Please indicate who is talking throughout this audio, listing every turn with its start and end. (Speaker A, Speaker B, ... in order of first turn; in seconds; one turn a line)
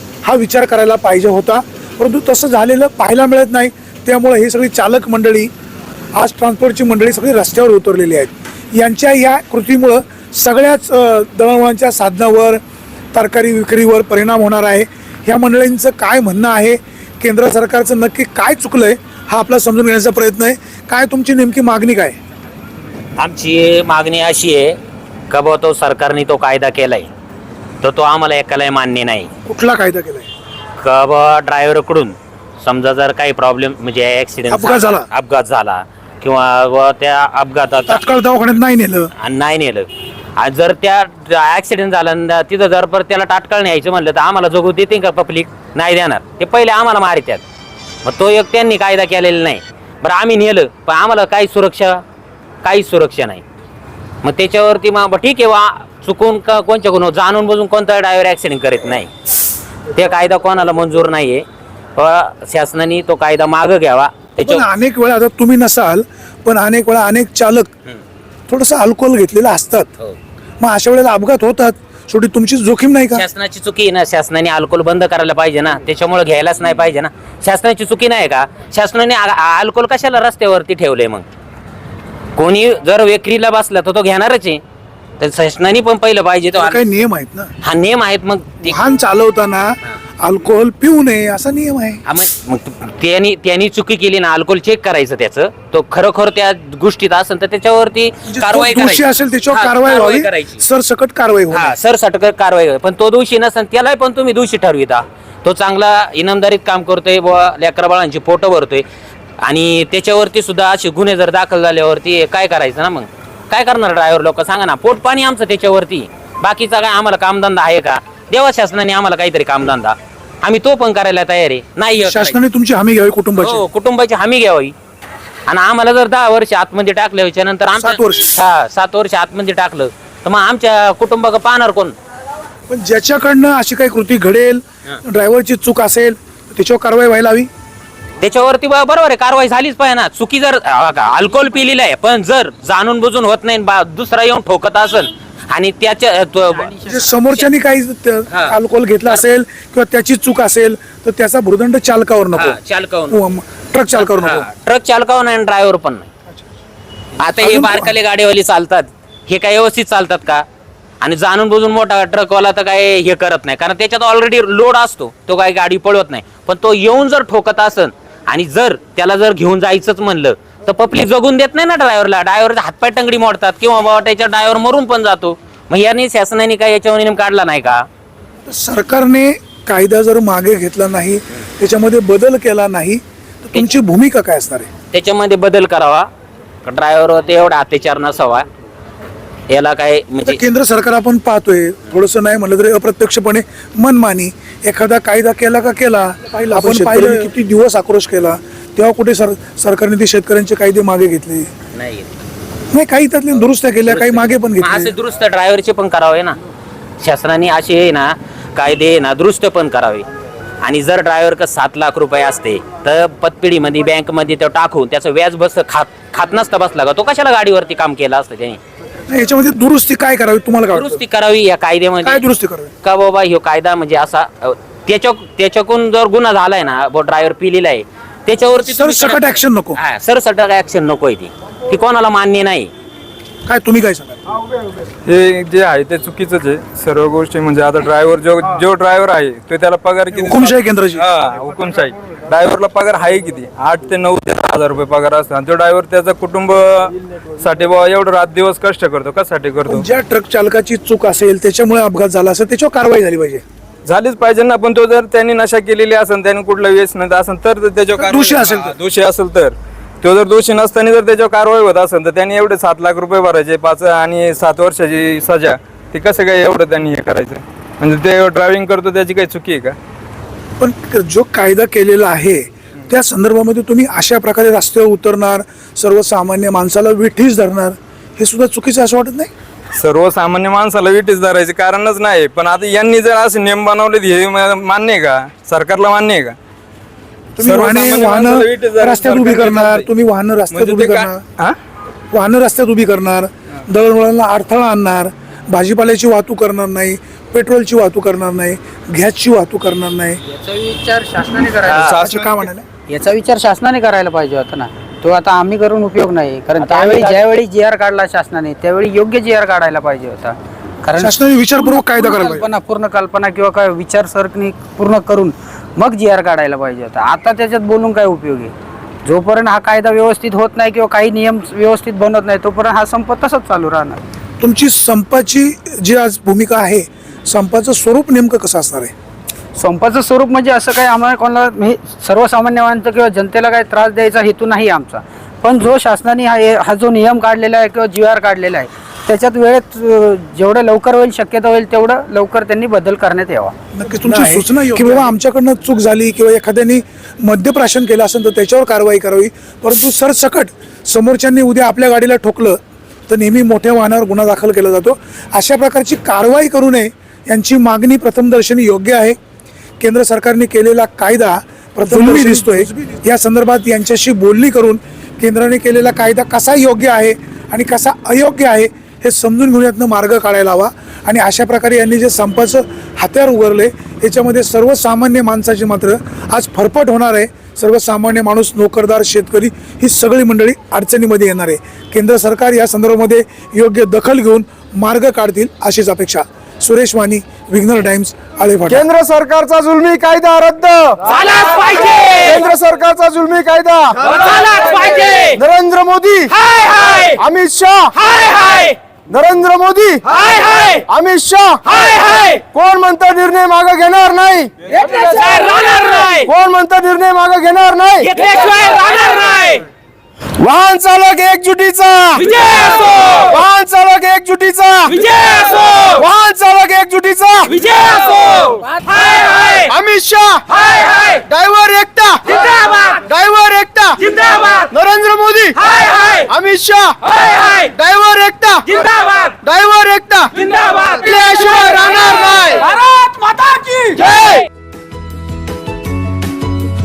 Speaker A: 0.2-5.5
Speaker A: 6.1-12.6
Speaker A: 13.1-22.2
Speaker B: 23.2-24.8
Speaker B: 25.3-27.1
Speaker B: 27.8-29.3
Speaker A: 29.4-30.3
Speaker B: 30.8-38.1
Speaker A: 34.5-35.0
Speaker A: 37.9-39.1
Speaker B: 39.2-47.4
Speaker B: 48.0-52.0
Speaker B: 52.6-53.4
Speaker B: 54.2-59.1
Speaker B: 59.9-61.4
Speaker B: 62.0-64.7
Speaker A: 64.4-67.7
Speaker A: 68.5-69.9
Speaker A: 70.6-73.2
Speaker B: 73.1-81.2
Speaker B: 82.3-84.6
Speaker B: 85.2-86.8
Speaker A: 86.5-87.5
Speaker B: 87.6-88.8
Speaker A: 88.7-92.0
Speaker B: 92.0-100.6
Speaker A: 98.3-101.7
Speaker B: 101.5-108.8
Speaker B: 109.4-122.3
Speaker A: 122.0-123.6
Speaker B: 123.4-124.7
Speaker B: 125.5-131.9
Speaker A: 127.8-128.2
Speaker A: 132.7-137.5
Speaker B: 138.2-147.5
Speaker C: 146.7-147.0
Speaker A: 146.8-152.6
Speaker B: 148.3-149.2
Speaker B: 152.3-153.2
Speaker A: 153.1-154.4
Speaker B: 154.0-156.1
Speaker B: 157.2-160.4
Speaker A: 157.4-157.9
Speaker B: 161.0-177.9
Speaker A: 178.5-184.7
Speaker B: 184.9-186.1
Speaker B: 186.6-188.4
Speaker B: 189.5-190.4
Speaker A: 190.2-201.5
Speaker B: 201.7-202.1
Speaker A: 202.7-204.9
Speaker B: 203.8-206.4
Speaker B: 207.0-210.1
Speaker B: 210.6-218.6
Speaker A: 219.1-221.0
Speaker B: 220.7-222.2
Speaker A: 222.0-222.7
Speaker B: 222.8-232.7
Speaker A: 228.7-229.8
Speaker A: 233.4-234.2
Speaker D: 235.1-249.8
Speaker A: 240.1-241.0
Speaker A: 249.7-253.4
Speaker D: 253.8-269.8
Speaker A: 258.0-258.7
Speaker A: 270.6-279.3
Speaker D: 279.8-286.3
Speaker A: 287.4-291.2
Speaker D: 287.4-289.9
Speaker D: 290.5-291.6
Speaker A: 292.1-300.2
Speaker C: 300.3-301.9
Speaker B: 301.7-301.9
Speaker A: 301.7-302.6
Speaker D: 301.7-302.5
Speaker C: 302.9-318.5
Speaker B: 306.6-307.2
Speaker A: 311.0-312.5
Speaker C: 319.0-324.0
Speaker A: 324.4-328.9
Speaker C: 329.6-343.5
Speaker A: 343.7-359.2
Speaker C: 344.8-345.0
Speaker A: 359.8-388.9
Speaker E: 388.7-391.0
Speaker B: 391.1-392.2
Speaker E: 392.0-394.2
Speaker B: 394.4-395.3
Speaker E: 395.3-396.3
Speaker E: 397.1-398.2
Speaker E: 399.1-404.5
Speaker B: 404.8-406.3
Speaker E: 406.2-408.3
Speaker B: 408.1-409.6
Speaker E: 410.4-433.1
Speaker E: 433.6-434.4